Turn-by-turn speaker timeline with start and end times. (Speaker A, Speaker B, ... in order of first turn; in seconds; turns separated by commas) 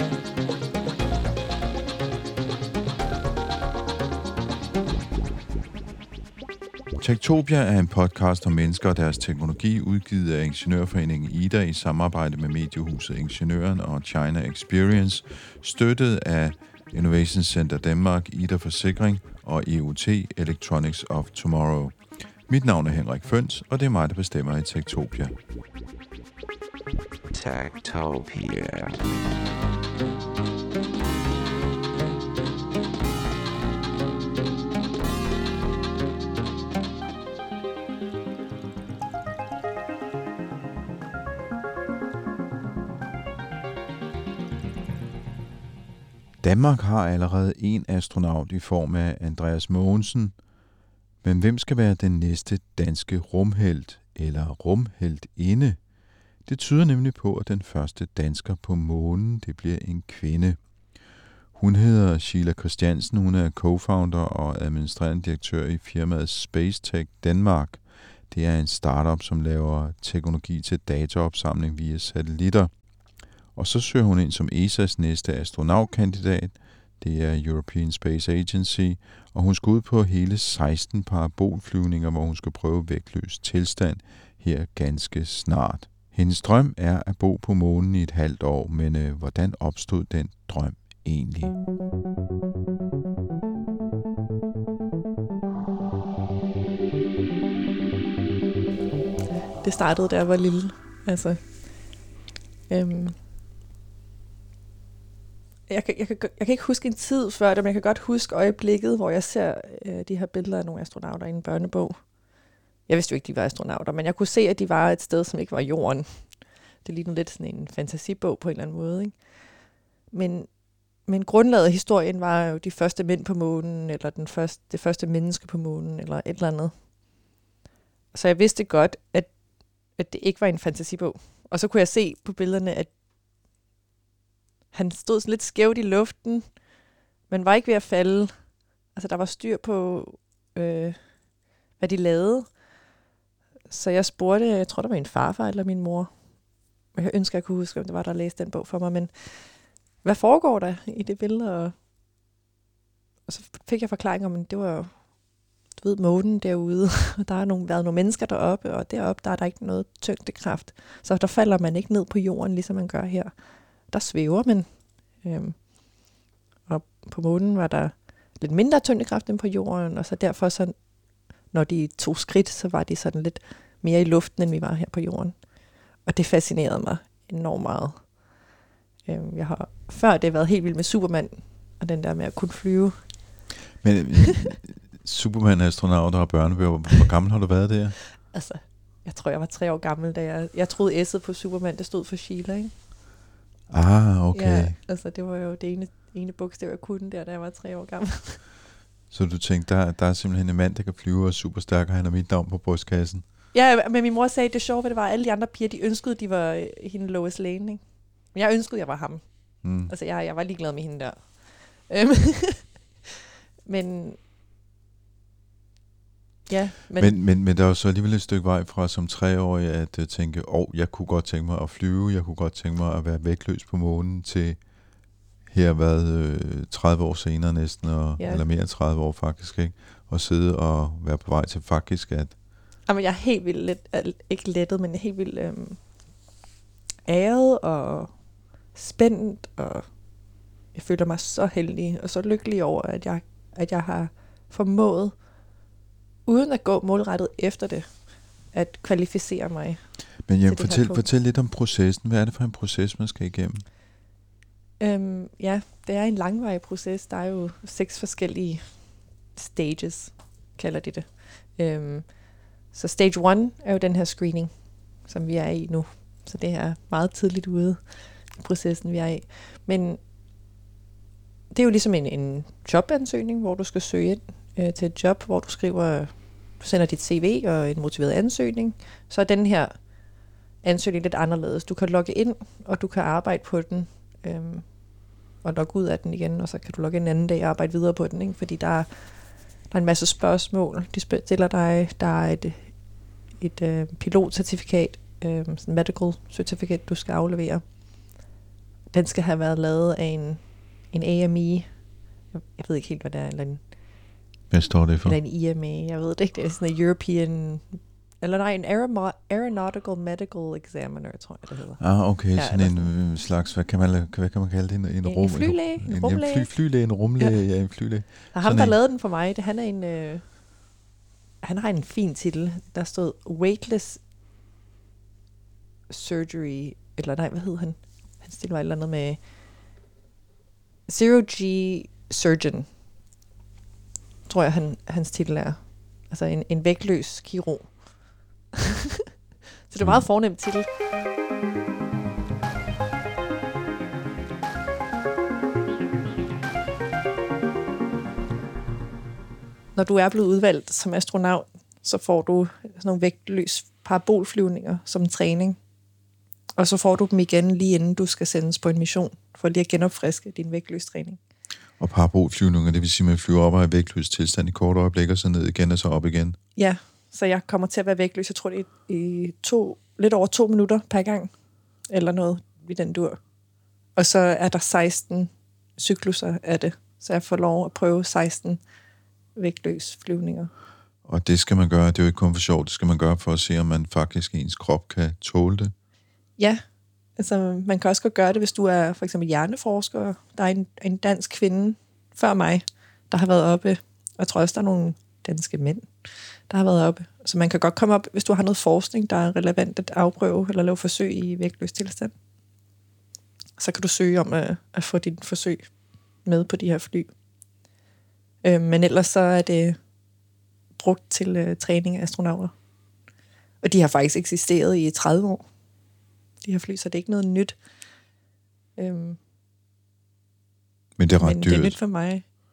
Speaker A: 7.0-22.0, Speaker A: 22.5-25.4, Speaker B: 27.3-29.4, Speaker A: 46.4-50.4, Speaker A: 51.2-55.8, Speaker A: 56.5-60.6, Speaker A: 61.5-72.7, Speaker A: 73.5-91.6, Speaker C: 99.6-101.4, Speaker C: 102.7-103.2, Speaker C: 105.7-112.0, Speaker C: 112.9-116.1, Speaker C: 116.8-119.2, Speaker C: 120.1-120.5, Speaker C: 121.1-126.7, Speaker C: 128.1-129.3, Speaker C: 130.0-132.9, Speaker C: 134.7-136.5, Speaker C: 137.3-138.3, Speaker C: 138.9-141.0, Speaker C: 141.8-142.5, Speaker C: 143.7-146.1, Speaker C: 146.9-149.3, Speaker C: 150.0-151.7, Speaker C: 153.3-154.9, Speaker C: 155.8-163.3, Speaker C: 163.9-164.7, Speaker C: 165.2-165.6, Speaker C: 166.7-170.8, Speaker C: 171.5-175.4, Speaker C: 176.1-178.1, Speaker C: 179.1-183.0, Speaker A: 183.8-188.0, Speaker C: 188.3-192.7, Speaker A: 193.7-194.8, Speaker C: 194.3-198.4, Speaker A: 199.1-203.2, Speaker C: 203.5-207.8, Speaker C: 208.3-209.2, Speaker A: 209.6-209.9, Speaker C: 209.9-212.8, Speaker C: 213.7-214.2, Speaker C: 216.5-217.2, Speaker A: 217.0-224.6, Speaker A: 225.5-232.3, Speaker C: 228.2-228.4, Speaker C: 232.9-235.8, Speaker C: 237.1-238.1, Speaker C: 238.8-239.8, Speaker C: 240.7-245.1, Speaker C: 246.3-248.0, Speaker C: 248.5-249.8, Speaker A: 250.3-253.7, Speaker C: 250.5-251.1, Speaker C: 254.8-258.7, Speaker C: 259.4-262.1, Speaker C: 262.7-264.5, Speaker C: 265.1-267.8, Speaker C: 268.4-270.0, Speaker C: 271.5-279.7, Speaker C: 280.6-284.7, Speaker C: 285.4-288.9, Speaker C: 289.7-292.6, Speaker C: 293.4-297.6, Speaker C: 298.9-300.4, Speaker C: 300.9-301.7, Speaker C: 302.3-303.6, Speaker A: 304.5-305.2, Speaker C: 305.0-312.9, Speaker A: 311.8-318.8, Speaker C: 315.1-316.5, Speaker C: 318.3-320.3, Speaker C: 321.4-324.0, Speaker C: 325.9-329.2, Speaker C: 330.9-332.7, Speaker C: 334.3-337.8, Speaker C: 339.7-340.7, Speaker C: 349.8-355.6, Speaker C: 356.6-361.2, Speaker A: 361.8-366.4, Speaker C: 366.6-371.3, Speaker C: 371.9-373.2, Speaker C: 374.0-378.6, Speaker C: 379.4-380.5, Speaker A: 381.1-385.7, Speaker C: 387.2-395.9, Speaker C: 396.5-402.1, Speaker C: 403.6-405.6, Speaker C: 406.2-407.1, Speaker C: 408.4-409.8, Speaker C: 410.8-412.5, Speaker C: 413.6-415.4, Speaker C: 416.4-417.6, Speaker C: 418.8-419.2, Speaker A: 421.0-421.8, Speaker C: 421.2-422.2